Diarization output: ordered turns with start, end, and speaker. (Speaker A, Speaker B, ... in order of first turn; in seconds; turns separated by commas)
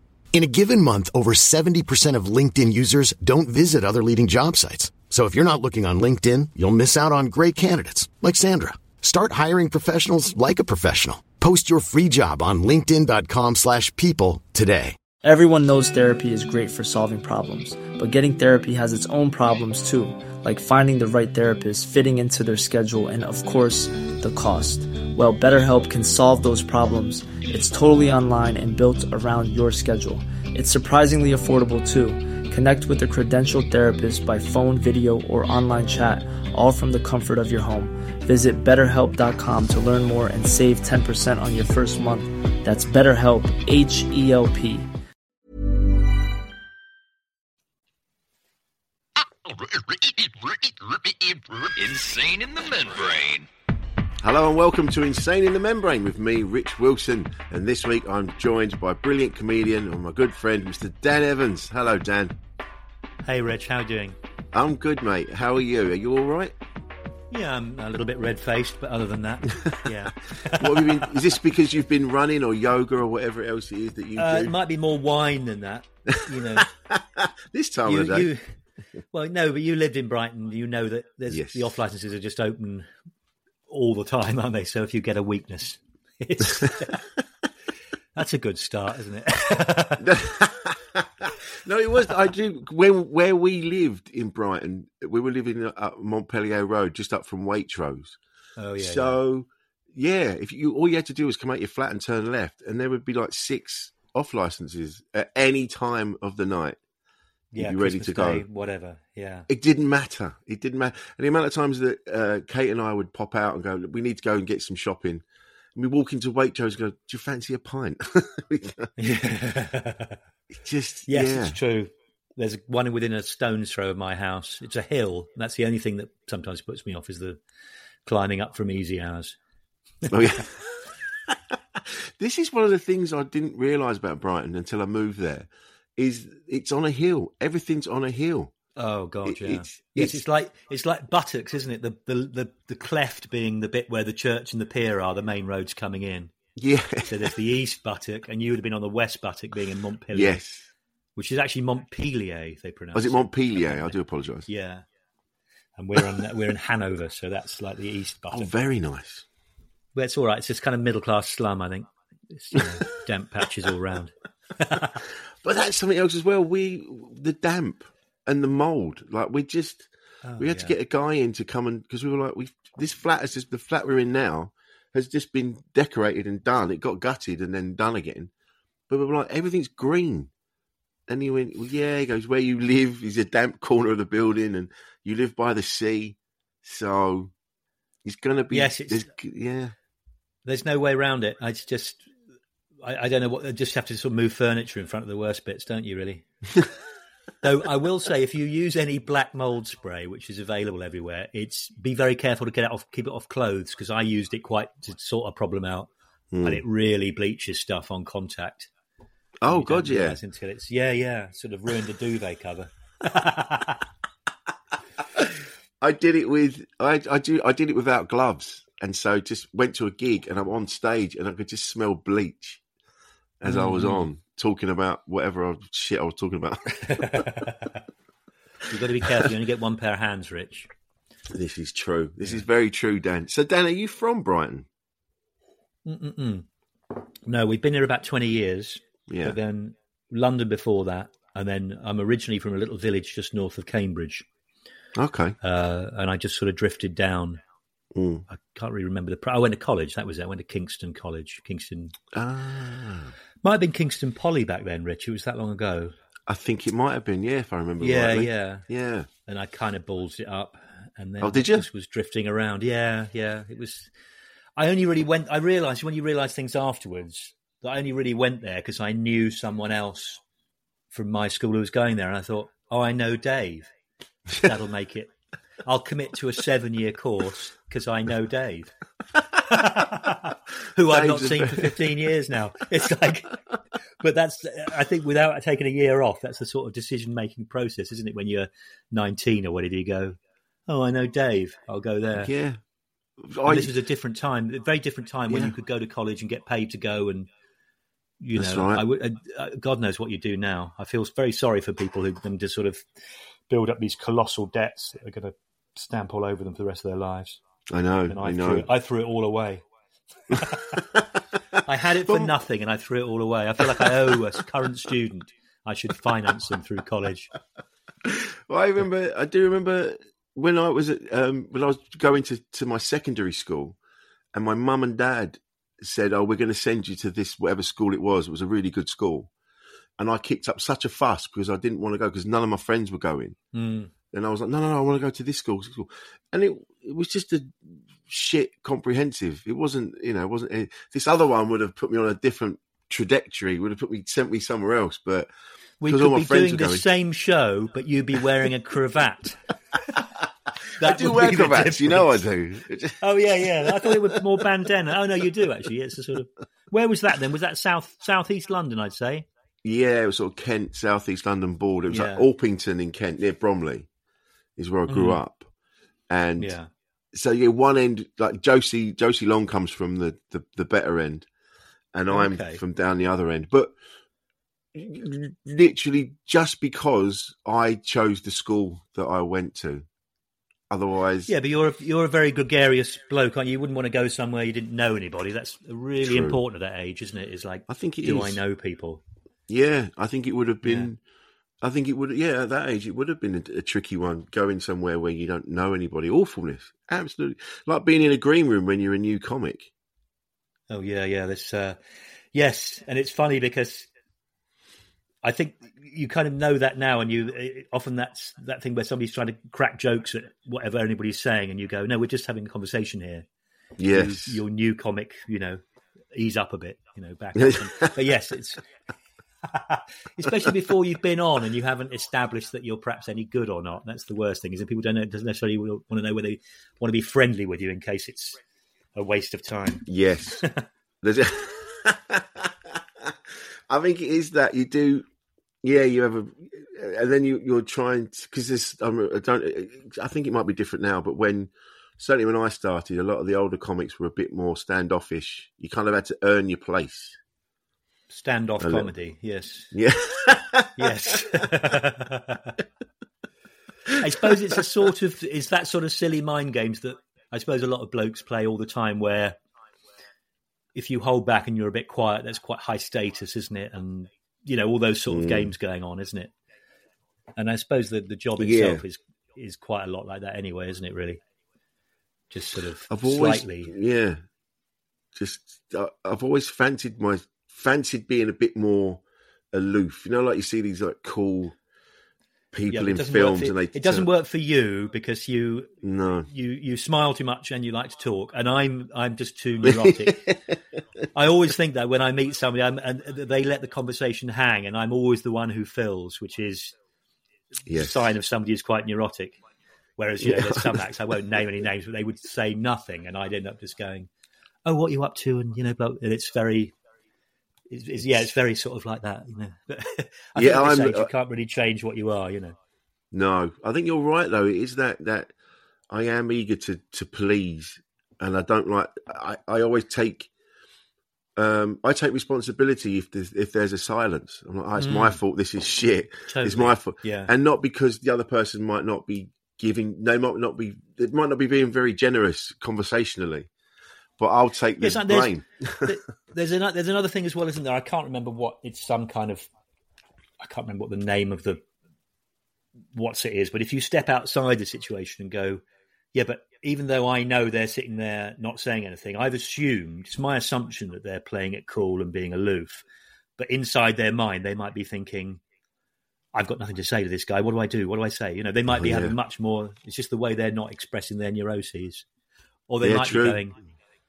Speaker A: 0.3-15.0, Speaker B: 15.2-44.9, Speaker C: 49.5-53.4, Speaker D: 54.2-62.4, Speaker E: 63.2-64.2, Speaker D: 64.5-66.5, Speaker E: 67.3-71.1, Speaker D: 69.5-69.9, Speaker D: 70.5-74.5, Speaker E: 74.2-76.7, Speaker D: 76.1-78.3, Speaker E: 77.8-78.4, Speaker E: 79.1-82.9, Speaker D: 81.3-81.7, Speaker E: 83.7-87.0, Speaker E: 88.1-90.1, Speaker D: 90.0-98.2, Speaker E: 98.6-99.2, Speaker D: 98.8-106.8, Speaker E: 107.5-109.5, Speaker D: 107.6-108.5, Speaker D: 109.5-118.9, Speaker E: 119.0-120.2, Speaker D: 120.5-121.6, Speaker E: 121.1-127.4, Speaker E: 128.1-129.3, Speaker D: 130.1-138.5, Speaker E: 138.8-146.3, Speaker D: 139.2-140.2, Speaker D: 146.6-147.3, Speaker E: 147.1-150.4, Speaker D: 150.1-150.7, Speaker E: 151.2-153.9, Speaker D: 152.9-154.5, Speaker E: 154.5-154.8, Speaker E: 155.8-158.5, Speaker D: 158.3-159.2, Speaker E: 159.9-165.0, Speaker D: 165.4-169.9, Speaker E: 170.2-170.7, Speaker D: 170.4-178.3, Speaker D: 178.9-180.3, Speaker D: 181.1-187.3, Speaker D: 188.0-189.7, Speaker E: 188.5-189.1, Speaker E: 190.4-192.1, Speaker E: 192.8-196.2, Speaker E: 197.4-205.9, Speaker D: 206.3-206.6, Speaker E: 206.4-208.7, Speaker D: 209.4-210.2, Speaker E: 209.5-213.8, Speaker D: 215.8-222.6, Speaker D: 223.4-227.2, Speaker E: 223.4-224.1, Speaker E: 226.8-227.8, Speaker E: 228.7-230.7, Speaker D: 231.3-234.7, Speaker E: 235.8-236.4, Speaker E: 237.3-244.2, Speaker D: 239.1-239.4, Speaker D: 244.9-245.4, Speaker E: 245.4-247.4, Speaker D: 247.9-248.2, Speaker E: 248.3-251.9, Speaker D: 252.1-253.1, Speaker E: 253.4-255.9, Speaker D: 256.3-259.1, Speaker E: 257.8-258.7, Speaker E: 259.2-263.9, Speaker D: 261.2-261.7, Speaker E: 264.6-270.2, Speaker E: 270.9-273.7, Speaker E: 274.3-275.1, Speaker E: 275.6-278.7, Speaker E: 279.4-283.4, Speaker D: 280.8-282.1, Speaker E: 284.0-292.3, Speaker D: 292.1-292.6, Speaker D: 293.2-293.7, Speaker E: 293.4-297.3, Speaker D: 295.3-295.5, Speaker E: 298.2-302.8, Speaker D: 298.3-298.8, Speaker E: 303.5-307.4, Speaker D: 307.7-308.7, Speaker E: 308.1-309.6, Speaker E: 310.3-310.8, Speaker D: 310.7-311.0, Speaker E: 311.6-317.3, Speaker D: 312.0-312.3, Speaker D: 313.8-314.1, Speaker D: 318.0-323.8, Speaker D: 324.3-329.3, Speaker D: 330.0-333.4, Speaker E: 333.5-333.9, Speaker D: 334.1-345.3, Speaker E: 345.8-349.4, Speaker D: 345.9-346.9, Speaker E: 350.8-352.2, Speaker D: 350.8-354.4, Speaker E: 353.0-359.2, Speaker D: 359.6-363.9, Speaker E: 361.9-362.3, Speaker D: 364.6-365.5, Speaker E: 364.9-365.2, Speaker D: 366.1-366.6, Speaker E: 366.4-366.7, Speaker D: 367.1-371.3, Speaker D: 371.9-373.7, Speaker E: 372.1-372.6, Speaker D: 374.7-379.9, Speaker D: 380.7-381.3, Speaker E: 381.3-389.0, Speaker D: 386.0-386.4, Speaker D: 387.7-388.4, Speaker D: 389.5-391.0, Speaker E: 390.6-390.9, Speaker D: 391.6-399.7, Speaker E: 400.7-401.8, Speaker E: 402.3-403.9, Speaker E: 405.2-413.2, Speaker D: 413.8-414.4, Speaker E: 413.9-415.6, Speaker E: 416.1-418.6, Speaker D: 417.4-417.9, Speaker E: 419.4-428.4, Speaker D: 420.3-420.5, Speaker E: 428.9-429.9, Speaker D: 429.9-430.4, Speaker D: 431.0-435.1, Speaker D: 435.6-447.2, Speaker E: 448.1-449.7, Speaker D: 448.6-448.9, Speaker D: 449.7-451.4, Speaker E: 450.8-452.6, Speaker E: 454.0-459.4, Speaker E: 460.7-466.3, Speaker D: 465.1-465.5, Speaker E: 467.4-471.2, Speaker D: 468.4-468.8, Speaker E: 472.3-473.7, Speaker D: 472.9-474.2, Speaker D: 475.1-481.6, Speaker D: 482.5-484.1, Speaker E: 482.7-485.7, Speaker D: 485.8-486.3, Speaker E: 486.3-490.2, Speaker D: 489.6-490.5, Speaker E: 491.1-496.7, Speaker D: 497.7-498.1, Speaker E: 497.7-499.4, Speaker E: 500.0-504.1, Speaker D: 500.2-501.1, Speaker E: 504.6-506.7, Speaker E: 507.7-512.5, Speaker D: 510.4-511.1, Speaker D: 513.1-515.3, Speaker D: 515.9-520.3, Speaker D: 521.4-533.5, Speaker E: 524.8-525.2, Speaker E: 526.3-527.3, Speaker D: 534.2-536.0, Speaker E: 534.8-539.5, Speaker E: 540.4-541.6, Speaker E: 542.9-545.6, Speaker E: 546.1-552.8, Speaker E: 553.4-555.4, Speaker E: 556.3-562.0, Speaker D: 558.7-559.1, Speaker E: 562.7-563.6, Speaker D: 562.8-563.4